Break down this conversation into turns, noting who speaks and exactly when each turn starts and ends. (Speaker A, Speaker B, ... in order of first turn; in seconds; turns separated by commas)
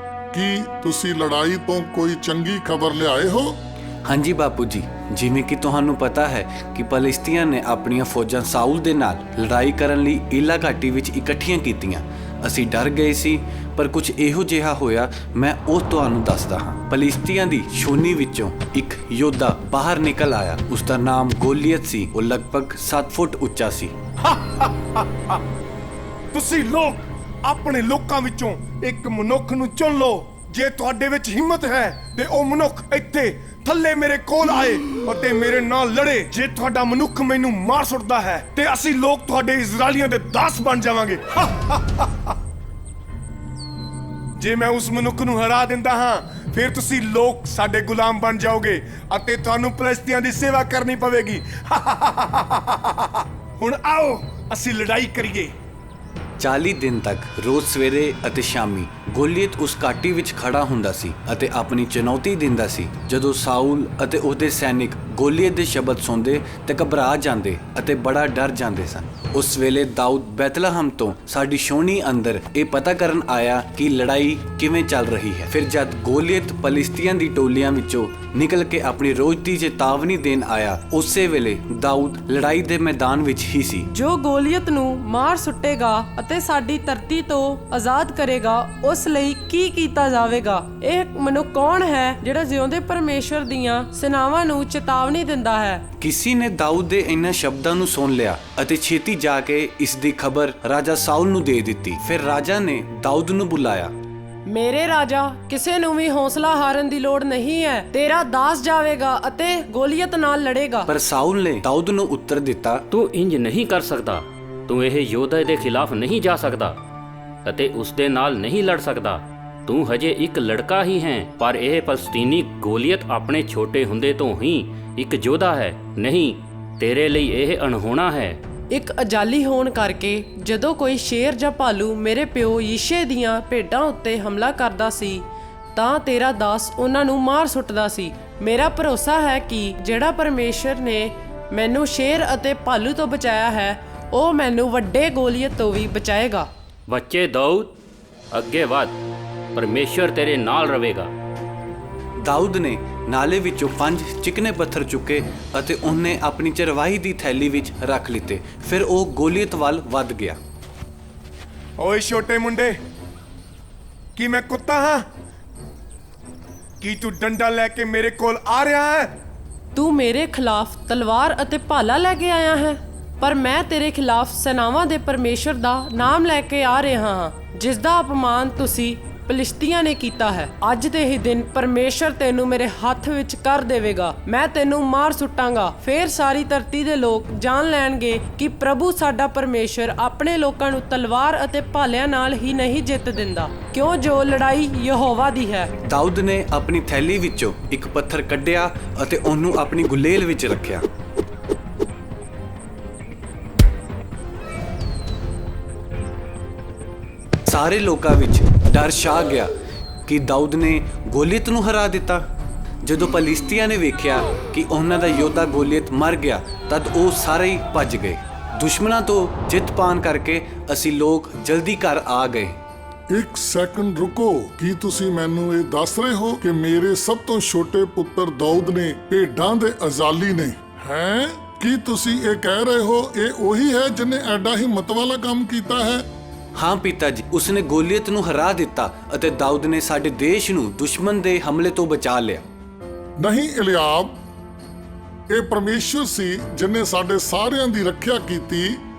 Speaker A: 0.3-3.6, Speaker B: 4.0-23.9, Speaker C: 24.2-25.4, Speaker C: 26.3-42.3, Speaker C: 44.4-55.5, Speaker B: 56.4-83.9, Speaker D: 83.9-95.8, Speaker B: 96.0-103.9, Speaker D: 104.5-110.9, Speaker B: 110.9-112.8, Speaker E: 112.9-116.8, Speaker E: 117.5-128.4, Speaker D: 128.7-146.5, Speaker E: 146.9-147.7, Speaker E: 148.3-149.0, Speaker E: 149.6-151.1, Speaker B: 152.2-160.4, Speaker C: 161.8-162.8, Speaker C: 164.2-165.1, Speaker C: 166.8-169.1, Speaker D: 169.7-195.7, Speaker B: 195.8-200.8, Speaker B: 207.5-209.5, Speaker B: 210.1-212.2, Speaker B: 212.8-222.6, Speaker A: 223.1-236.1, Speaker B: 236.6-242.4, Speaker A: 243.2-244.2, Speaker A: 245.3-248.8